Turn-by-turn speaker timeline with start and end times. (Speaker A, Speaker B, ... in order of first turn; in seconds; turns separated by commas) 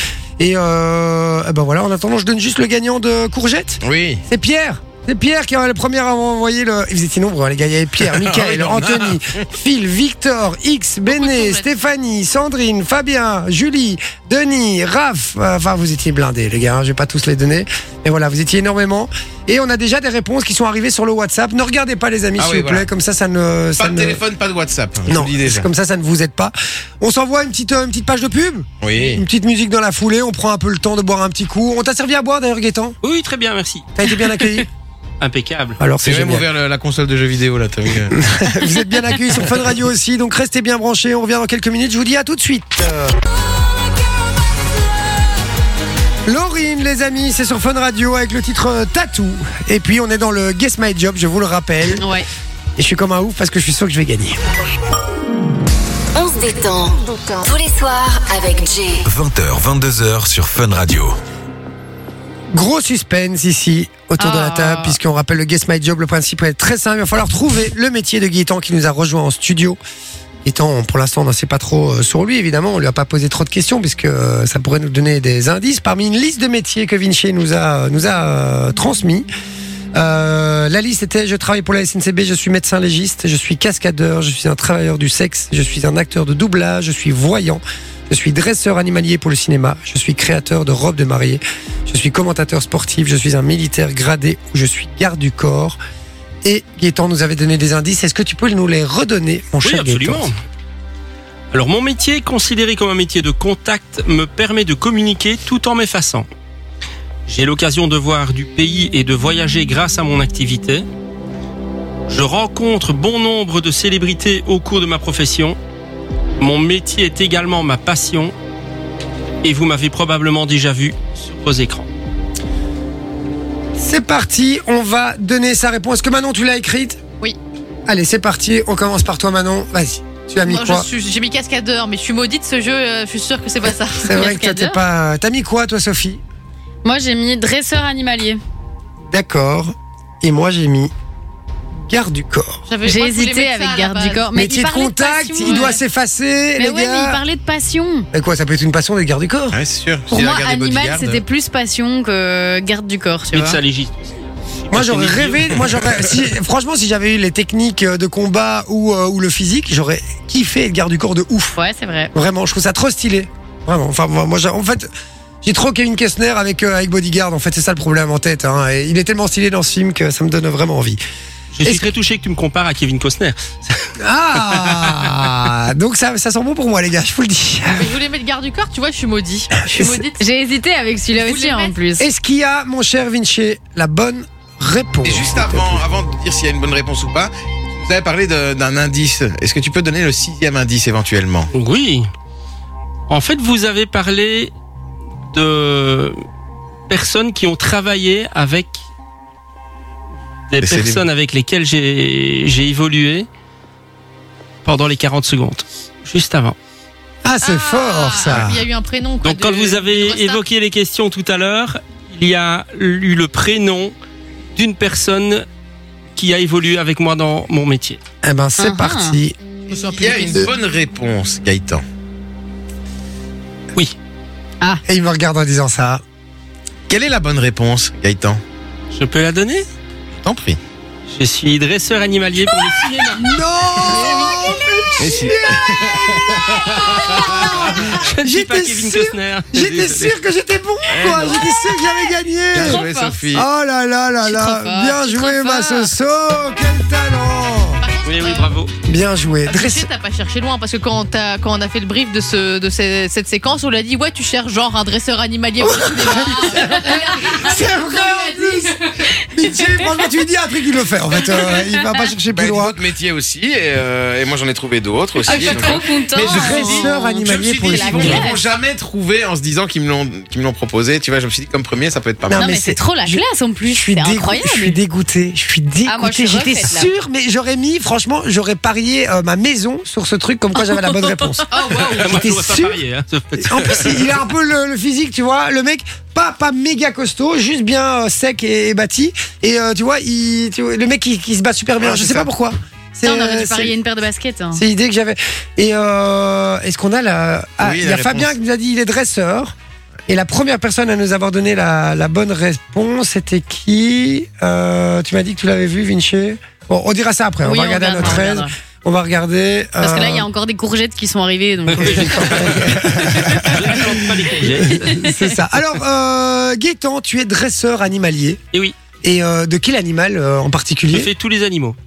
Speaker A: 0.4-24.2, Speaker B: 3.8-4.2, Speaker B: 8.0-9.4, Speaker C: 11.1-11.7, Speaker B: 22.4-22.9, Speaker B: 23.8-25.6, Speaker A: 25.1-33.0, Speaker B: 28.8-29.2, Speaker D: 33.0-34.6, Speaker A: 34.0-34.7, Speaker D: 35.2-35.8, Speaker A: 35.8-36.5, Speaker B: 36.0-38.2, Speaker A: 38.1-43.2, Speaker A: 46.2-52.1, Speaker E: 52.0-52.3, Speaker A: 52.8-54.4, Speaker F: 56.1-59.0, Speaker G: 59.0-61.2, Speaker A: 62.5-69.8, Speaker E: 64.2-65.0, Speaker A: 70.4-79.3, Speaker A: 79.9-95.8, Speaker A: 96.4-100.3, Speaker D: 99.6-100.3, Speaker D: 101.5-106.3, Speaker D: 107.3-110.8, Speaker D: 112.1-115.6, Speaker D: 116.4-118.3, Speaker D: 119.4-121.9, Speaker A: 123.8-127.0, Speaker A: 127.8-130.9, Speaker C: 130.4-134.3, Speaker A: 134.0-136.2, Speaker E: 134.1-134.8, Speaker E: 136.8-138.4, Speaker A: 139.1-140.9, Speaker A: 141.8-142.6, Speaker C: 142.7-144.3, Speaker E: 142.8-145.8, Speaker A: 144.3-147.2, Speaker E: 146.6-148.1, Speaker A: 148.1-149.6, Speaker B: 149.5-151.2, Speaker E: 150.1-153.6, Speaker D: 153.3-155.6, Speaker A: 154.7-161.6, Speaker B: 155.7-156.0, Speaker E: 161.6-162.1, Speaker A: 162.1-164.9, Speaker A: 165.4-171.0, Speaker D: 171.5-175.2, Speaker A: 171.6-171.9, Speaker A: 174.0-177.9, Speaker C: 177.7-180.2, Speaker A: 179.7-180.0, Speaker E: 180.2-182.1, Speaker C: 181.2-181.7, Speaker A: 182.0-185.8, Speaker B: 185.0-191.5, Speaker D: 191.5-192.1, Speaker D: 193.1-194.5, Speaker D: 195.3-196.2, Speaker D: 196.9-198.8, Speaker D: 200.5-203.3, Speaker B: 200.6-201.1, Speaker D: 204.6-206.6, Speaker A: 207.2-208.6, Speaker C: 207.4-210.4, Speaker B: 208.2-208.5, Speaker D: 209.2-213.9, Speaker D: 214.5-215.4, Speaker D: 216.1-218.0, Speaker A: 218.2-219.3, Speaker E: 218.6-219.2, Speaker C: 219.7-220.5, Speaker B: 219.9-221.8, Speaker A: 224.8-226.0, Speaker B: 226.9-228.4, Speaker D: 228.9-229.7, Speaker B: 230.2-230.6, Speaker D: 231.1-233.3, Speaker A: 233.2-247.8, Speaker E: 233.8-234.7, Speaker B: 235.0-237.9, Speaker D: 237.9-240.1, Speaker B: 240.9-241.3, Speaker B: 242.5-243.5, Speaker E: 242.5-243.2, Speaker E: 244.2-245.9, Speaker C: 247.8-248.6, Speaker D: 248.0-248.7, Speaker A: 248.8-249.8, Speaker C: 249.4-257.6, Speaker A: 255.6-262.8, Speaker E: 256.5-258.4, Speaker E: 259.5-259.9, Speaker E: 261.4-261.9, Speaker B: 262.3-272.4, Speaker E: 265.3-268.4, Speaker C: 265.3-266.0, Speaker A: 266.2-268.3, Speaker E: 272.3-274.8, Speaker A: 272.3-282.8, Speaker E: 275.9-276.9, Speaker E: 280.7-281.1, Speaker C: 281.5-282.2, Speaker D: 281.9-284.0, Speaker A: 283.4-293.7, Speaker B: 291.8-292.3, Speaker E: 293.0-294.6, Speaker A: 294.5-299.5, Speaker B: 297.6-298.3, Speaker A: 300.1-310.3, Speaker E: 307.4-308.5, Speaker E: 309.8-312.7, Speaker D: 311.7-315.1, Speaker A: 311.8-318.4, Speaker E: 314.7-315.2, Speaker D: 318.5-318.8, Speaker A: 319.0-321.1, Speaker D: 320.9-321.8